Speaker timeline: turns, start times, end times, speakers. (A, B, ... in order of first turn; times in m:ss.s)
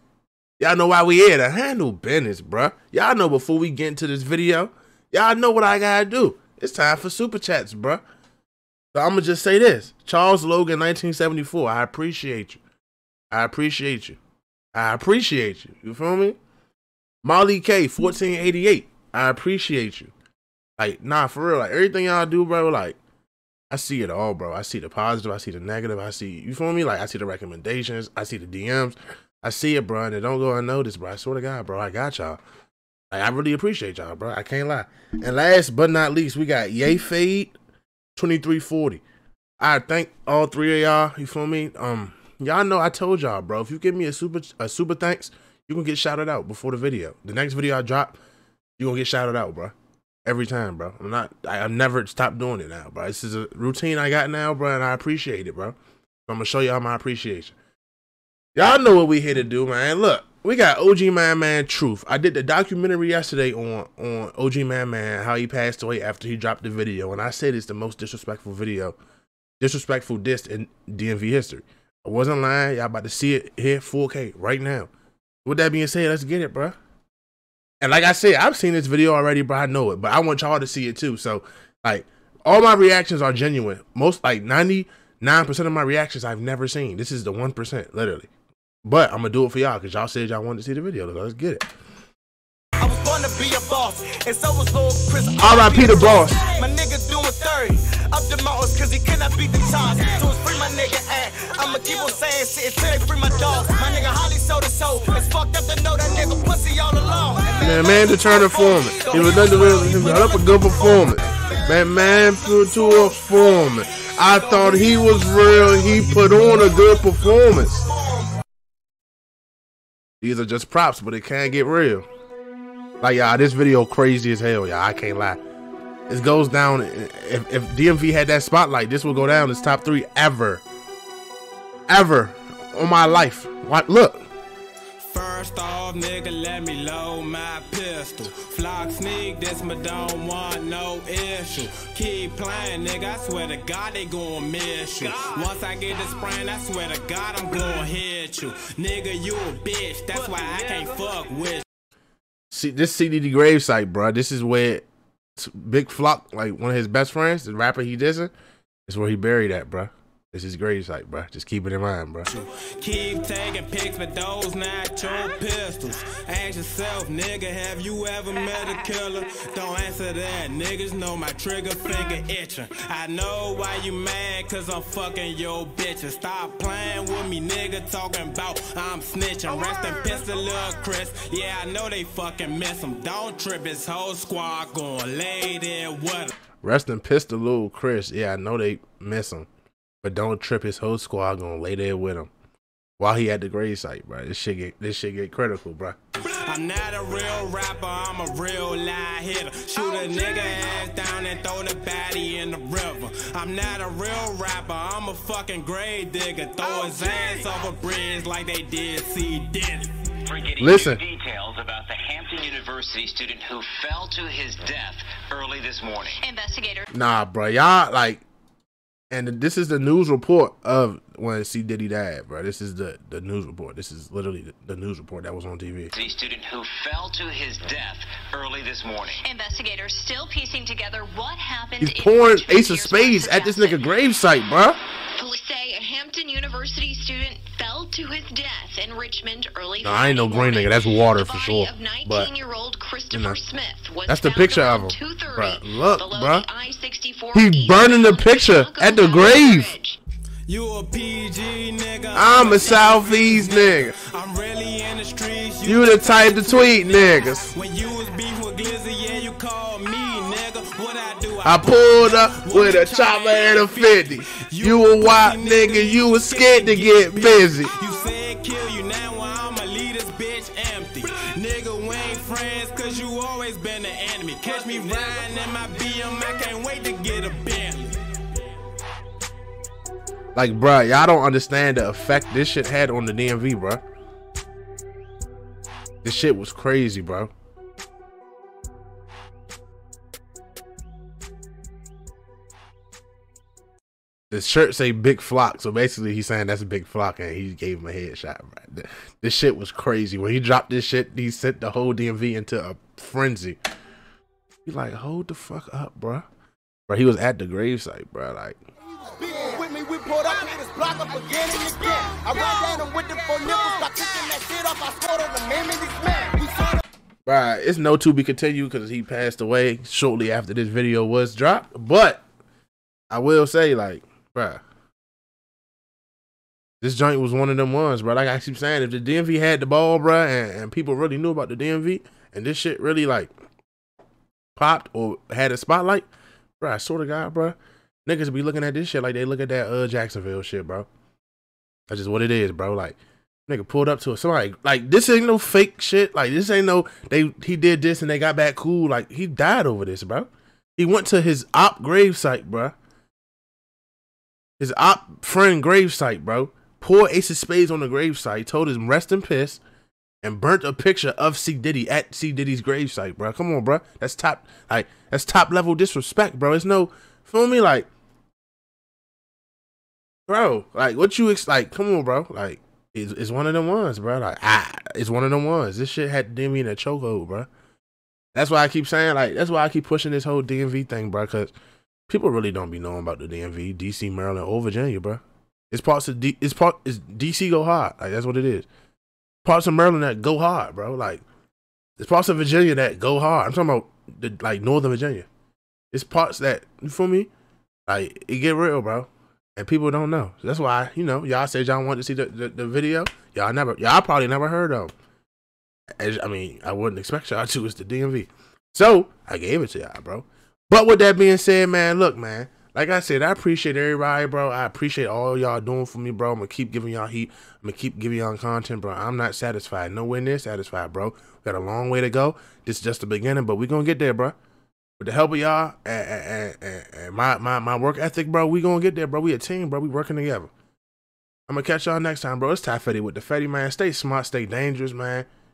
0:00.6-0:08.0 A
0:08.9-0:12.6 A
0:13.3-0:14.2 A
0:14.7-0:16.4 A
0:17.2-0:20.1 A
0:20.8-0:23.0 A
0:23.7-0:32.4 A
0:33.1-0:37.6 A
0:38.2-0:39.0 A
0:39.6-0:48.2 A
0:48.8-0:49.7 A
0:50.2-0:55.8 A
0:56.3-0:57.5 A
0:58.5-1:09.0 A
1:09.6-1:14.9 A
1:15.4-1:16.8 A
1:17.8-1:28.3 A
1:28.8-1:31.7 A
1:32.8-1:51.2 B
1:35.4-1:36.4 A
1:47.6-1:57.9 A
1:54.5-1:56.0 B
1:57.9-1:58.3 B
2:00.2-2:02.1 A
2:03.0-2:05.4 A
2:06.1-2:10.6 A
2:11.9-2:14.2 A
2:15.0-2:31.6 C
2:32.5-2:34.8 A
2:35.4-2:38.3 A
2:38.9-2:42.3 A
2:42.3-3:06.3 C
3:06.6-3:09.5 A
3:10.0-3:12.3 A
3:13.0-3:16.0 A
3:16.2-3:29.9 C
3:30.2-3:36.2 D
3:30.6-3:31.0 A
3:36.2-3:36.9 E
3:36.9-3:38.2 A
3:39.1-3:45.9 A
3:45.9-3:49.2 D
3:49.2-3:53.9 E
3:51.8-3:54.8 A
3:55.1-4:10.0 E
3:59.8-4:02.3 A
4:03.1-4:03.4 A
4:04.0-4:06.5 A
4:07.3-4:09.7 A
4:10.5-4:38.0 C
4:12.1-4:13.9 A
4:15.6-4:17.5 A
4:21.4-4:27.7 A
4:40.3-4:43.8 A
4:46.0-4:47.3 A
4:54.3-5:03.6 A
5:04.6-5:06.2 A
5:06.9-5:08.6 A
5:09.0-5:16.8 B
5:17.2-5:22.2 A
5:23.1-5:24.6 A
5:26.8-5:33.3 A
5:34.6-5:36.0 A
5:36.6-5:40.9 A
5:41.9-5:52.7 A
5:54.6-5:59.6 A
6:00.2-6:07.9 A
6:10.3-6:17.5 A
6:18.3-6:21.5 A
6:22.1-6:28.7 A
6:29.4-6:31.2 A
6:32.0-6:35.3 A
6:35.9-6:37.3 A
6:37.9-6:44.9 A
6:46.0-7:04.4 A
7:05.0-7:10.5 A
7:11.5-7:15.3 A